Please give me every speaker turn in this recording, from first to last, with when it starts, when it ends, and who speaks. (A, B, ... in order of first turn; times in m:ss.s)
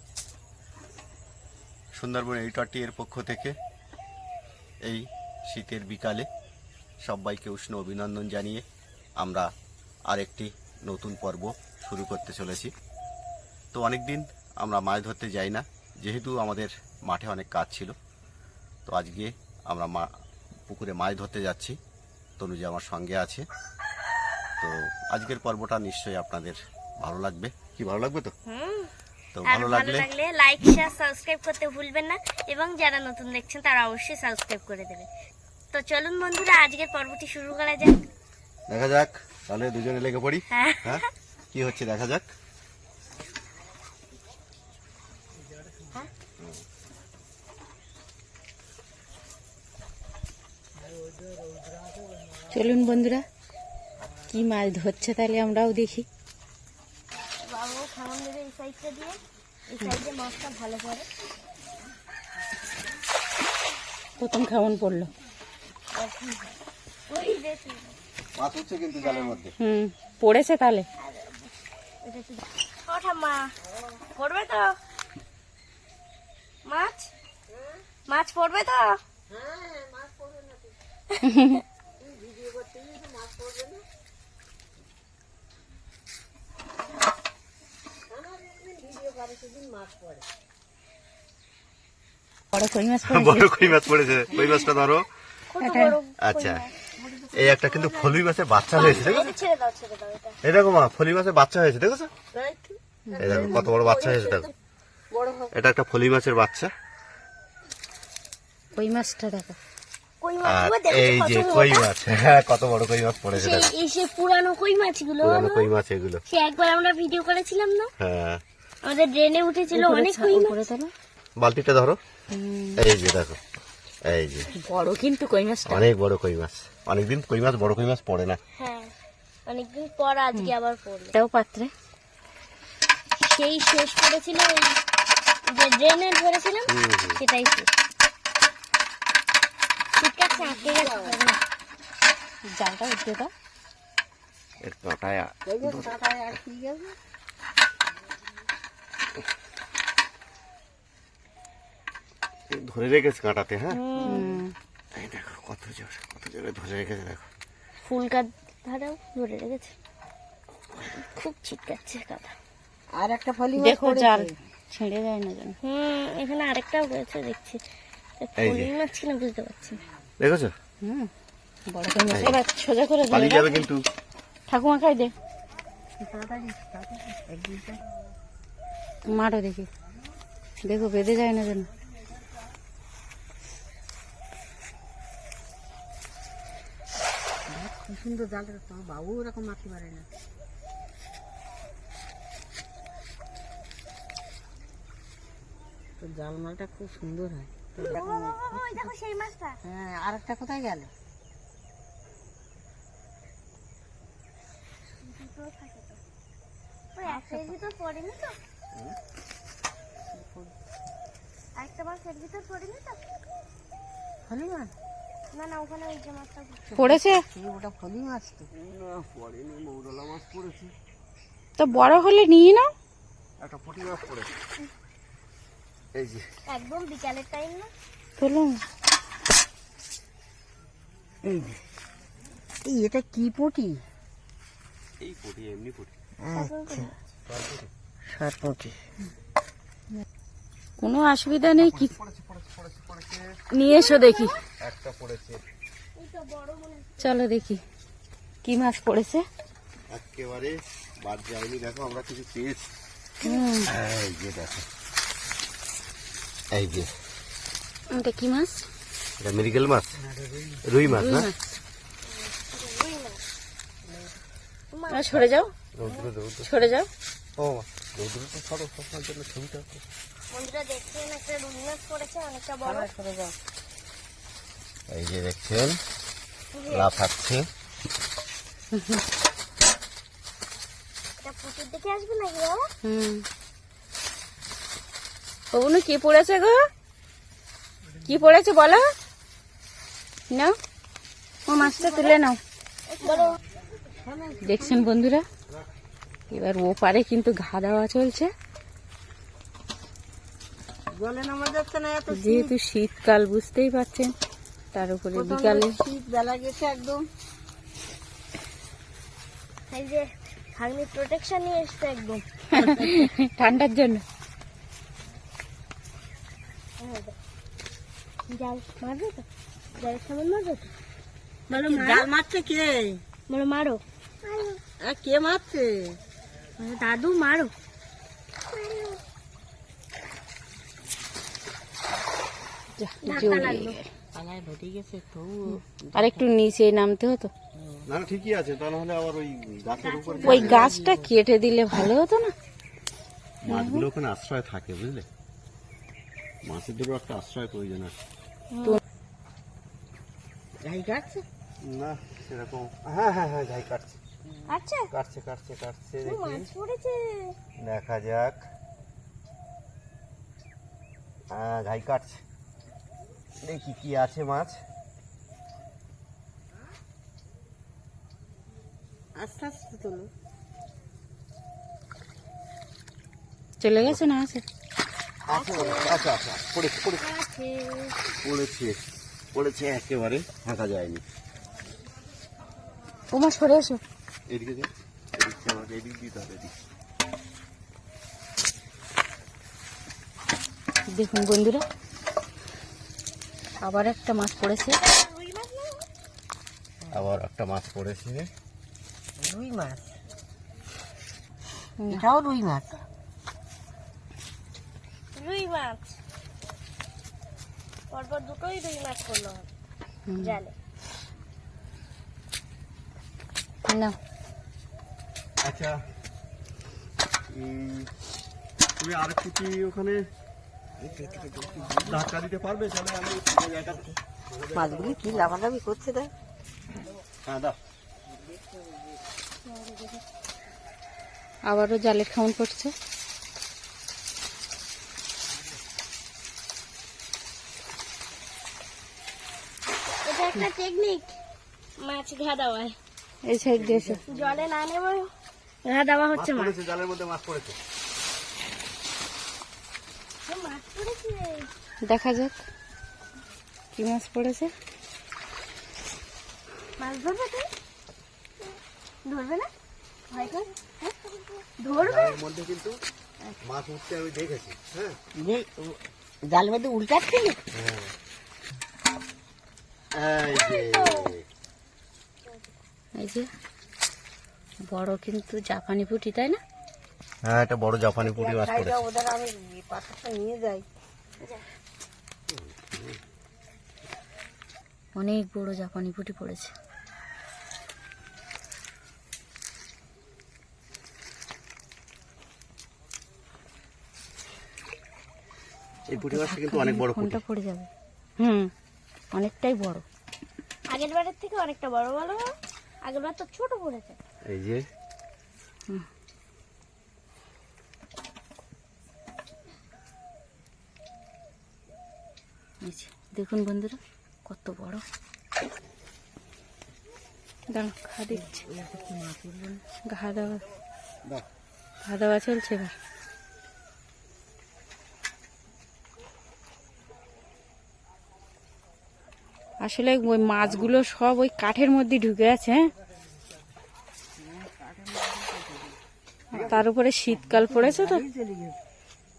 0:01.9-0:03.5 A
0:04.8-0:06.3 A
0:07.0-0:08.6 A
0:09.2-0:09.5 A
0:10.1-0:12.7 A
0:13.7-0:18.0 A
0:18.8-0:20.1 A
0:20.7-0:21.8 A
0:22.4-0:23.4 A
0:24.6-0:28.3 A
0:28.4-0:28.9 B
0:29.4-0:30.1 A
0:29.5-0:35.1 B
0:35.7-0:38.0 B
0:38.7-0:42.3 A
0:40.5-0:41.1 B
0:52.4-0:53.2 C
0:54.3-0:56.0 C
0:57.4-0:59.2 B
0:59.7-1:01.1 B
1:04.2-1:05.1 C
1:05.9-1:06.6 B
1:07.1-1:07.9 B
1:08.4-1:09.5 A
1:09.0-1:09.4 B
1:09.6-1:10.8 C
1:11.0-1:11.5 B
1:12.0-1:13.5 B
1:14.1-1:14.7 B
1:16.7-1:17.1 B
1:18.1-1:19.0 B
1:19.3-1:20.8 D
1:21.1-1:21.6 B
1:22.0-1:23.8 D
1:28.1-1:30.2 D
1:32.5-1:33.5 C
1:33.0-1:35.1 A
1:35.5-1:36.7 B
1:35.6-1:36.0 C
1:36.2-1:36.6 A
1:37.0-1:38.1 D
1:37.3-1:39.3 A
1:38.7-1:40.4 B
1:40.4-1:42.1 A
1:42.3-1:44.5 D
1:43.1-1:43.7 C
1:43.2-1:44.5 A
1:45.1-1:45.5 D
1:45.5-1:46.7 A
1:48.7-1:49.6 C
1:50.2-1:51.8 B
1:50.4-1:53.7 A
1:53.3-1:55.7 B
1:55.2-1:56.2 A
1:56.3-1:57.9 B
1:58.0-1:58.4 A
1:58.8-2:00.6 B
1:59.7-2:00.9 C
2:01.4-2:02.0 A
2:02.3-2:02.8 C
2:02.8-2:03.4 A
2:04.0-2:04.5 A
2:04.6-2:05.8 C
2:05.6-2:08.4 A
2:08.6-2:08.9 B
2:09.5-2:11.1 B
2:11.1-2:11.7 C
2:13.2-2:14.8 B
2:15.4-2:17.7 B
2:16.7-2:17.2 A
2:20.0-2:21.4 B
2:20.7-2:21.2 D
2:22.5-2:23.3 C
2:24.6-2:26.0 A
2:25.4-2:27.0 D
2:32.5-2:33.8 A
2:33.7-2:34.2 B
2:34.0-2:34.2 D
2:34.0-2:34.5 C
2:34.9-2:37.3 A
2:37.8-2:39.7 B
2:40.8-2:42.4 B
2:42.9-2:44.3 D
2:43.6-2:45.6 C
2:45.6-2:47.6 B
2:48.2-2:49.8 B
2:48.4-2:48.7 A
2:50.2-2:50.5 A
2:50.8-2:51.1 C
2:51.7-2:53.6 C
2:52.1-2:52.4 A
2:53.1-2:53.8 A
2:54.5-2:55.1 C
2:56.0-2:57.8 D
2:59.1-2:59.7 C
3:00.6-3:01.7 C
3:07.5-3:10.1 D
3:16.0-3:18.9 D
3:17.9-3:19.6 B
3:19.6-3:20.9 D
3:25.0-3:26.0 B
3:26.9-3:28.4 B
3:27.0-3:27.5 D
3:30.1-3:30.5 D
3:31.6-3:33.0 B
3:34.2-3:34.7 D
3:35.3-3:36.7 B
3:36.7-3:38.5 D
3:36.8-3:37.2 C
3:38.5-3:40.7 A
3:41.6-3:42.7 C
3:43.4-3:44.3 A
3:45.9-3:46.2 A
3:46.5-3:47.7 B
3:48.2-3:48.6 C
3:51.3-3:51.5 D
3:52.6-3:53.8 D
3:55.0-3:55.9 A
3:56.2-3:56.9 D
3:56.3-3:56.9 B
3:57.2-3:57.7 A
3:58.0-3:58.8 D
4:00.8-4:01.9 C
4:01.5-4:03.4 A
4:03.5-4:04.3 C
4:03.6-4:04.4 B
4:04.6-4:05.4 A
4:06.0-4:07.2 B
4:07.0-4:07.6 C
4:08.4-4:09.2 C
4:09.9-4:12.7 A
4:13.2-4:13.7 C
4:13.7-4:14.6 A
4:16.5-4:16.9 A
4:17.9-4:18.6 C
4:19.2-4:20.0 A
4:20.2-4:20.6 D
4:20.6-4:21.3 A
4:20.8-4:21.4 C
4:22.0-4:23.2 B
4:23.9-4:24.2 D
4:24.7-4:25.2 B
4:24.9-4:25.5 C
4:25.8-4:26.5 A
4:26.4-4:26.9 C
4:27.4-4:29.8 A
4:30.3-4:32.9 B
4:32.6-4:33.3 D
4:34.9-4:35.8 A
4:36.5-4:37.0 B
4:36.7-4:37.4 A
4:38.7-4:39.0 C
4:41.2-4:42.7 B
4:42.8-4:43.2 C
4:45.5-4:46.7 C
4:48.0-4:48.8 C
4:51.5-4:52.4 C
4:51.5-4:52.2 B
4:52.9-4:53.4 B
4:53.9-4:54.9 D
4:54.4-4:55.2 C
4:56.3-4:58.3 C
5:00.9-5:02.5 D
5:02.1-5:04.1 C
5:04.7-5:05.8 C
5:05.1-5:07.1 D
5:09.7-5:12.2 B
5:12.5-5:14.0 C
5:12.5-5:13.0 D
5:16.8-5:17.2 B
5:18.3-5:19.2 B
5:19.8-5:20.7 B
5:21.5-5:22.1 B
5:21.5-5:23.0 D
5:23.3-5:24.6 B
5:24.8-5:26.0 D
5:26.6-5:27.5 B
5:28.5-5:29.0 B
5:32.8-5:33.8 C
5:33.0-5:33.8 B
5:34.1-5:36.3 D
5:35.9-5:37.3 C
5:37.6-5:37.9 D
5:37.9-5:40.7 A
5:39.8-5:40.8 B
5:40.2-5:42.3 C
5:40.3-5:41.0 D
5:43.4-5:45.0 A
5:43.5-5:43.8 C
5:46.4-5:47.9 A
5:48.5-5:48.8 B
5:50.6-5:51.2 D
5:51.6-5:54.0 A
5:54.5-5:54.9 B
5:54.9-5:56.5 A
5:56.0-5:57.4 B
5:57.6-5:58.4 A
6:01.3-6:02.2 A
6:03.4-6:04.6 A
6:09.2-6:10.1 D
6:13.6-6:14.4 C
6:15.3-6:17.0 A
6:15.3-6:16.0 B
6:17.0-6:18.0 B
6:18.2-6:18.8 A
6:19.3-6:21.0 A
6:23.1-6:23.8 C
6:24.3-6:26.5 A
6:30.9-6:31.6 C
6:33.6-6:34.8 C
6:34.8-6:35.8 B
6:36.9-6:38.3 A
6:39.2-6:40.0 D
6:41.9-6:42.8 D
6:45.1-6:46.0 B
6:47.9-6:49.5 B
6:50.1-6:50.4 C
6:50.2-6:50.5 B
6:53.7-6:54.0 C
6:55.4-6:55.8 A
6:57.3-6:57.9 A
6:58.8-7:00.0 A
7:00.8-7:02.0 D
7:01.8-7:05.4 A
7:04.5-7:06.1 D
7:07.2-7:07.6 A
7:09.4-7:10.0 B
7:11.5-7:12.7 C
7:20.0-7:21.1 B
7:21.8-7:22.7 B
7:23.2-7:24.0 C
7:23.6-7:24.2 D
7:24.1-7:25.1 B
7:25.6-7:26.5 B
7:26.1-7:27.6 A
7:30.2-7:31.5 B
7:31.9-7:32.4 C
7:33.7-7:34.5 C
7:36.8-7:37.5 B
7:39.0-7:39.5 B
7:40.1-7:42.2 B
7:41.8-7:42.8 A
7:43.4-7:45.0 A
7:45.2-7:47.4 D
7:47.5-7:47.9 A
7:49.9-7:51.2 A
7:50.3-7:51.1 B
7:53.0-7:53.3 C
7:54.7-7:56.4 C
7:57.2-7:58.8 A
7:58.0-8:00.6 D
8:02.3-8:03.0 A
8:05.0-8:06.5 C
8:15.9-8:17.2 A
8:16.0-8:17.7 C
8:18.2-8:18.5 C
8:19.1-8:19.8 C
8:20.7-8:22.3 B
8:22.8-8:24.0 B
8:24.3-8:24.6 A
8:32.6-8:34.8 C
8:37.5-8:38.4 C
8:38.1-8:39.6 D
8:39.8-8:40.4 C
8:41.8-8:42.7 C
8:49.6-8:52.7 C
8:54.2-8:55.8 D
8:56.3-8:56.6 A
8:56.3-8:58.6 D
8:56.4-8:58.0 C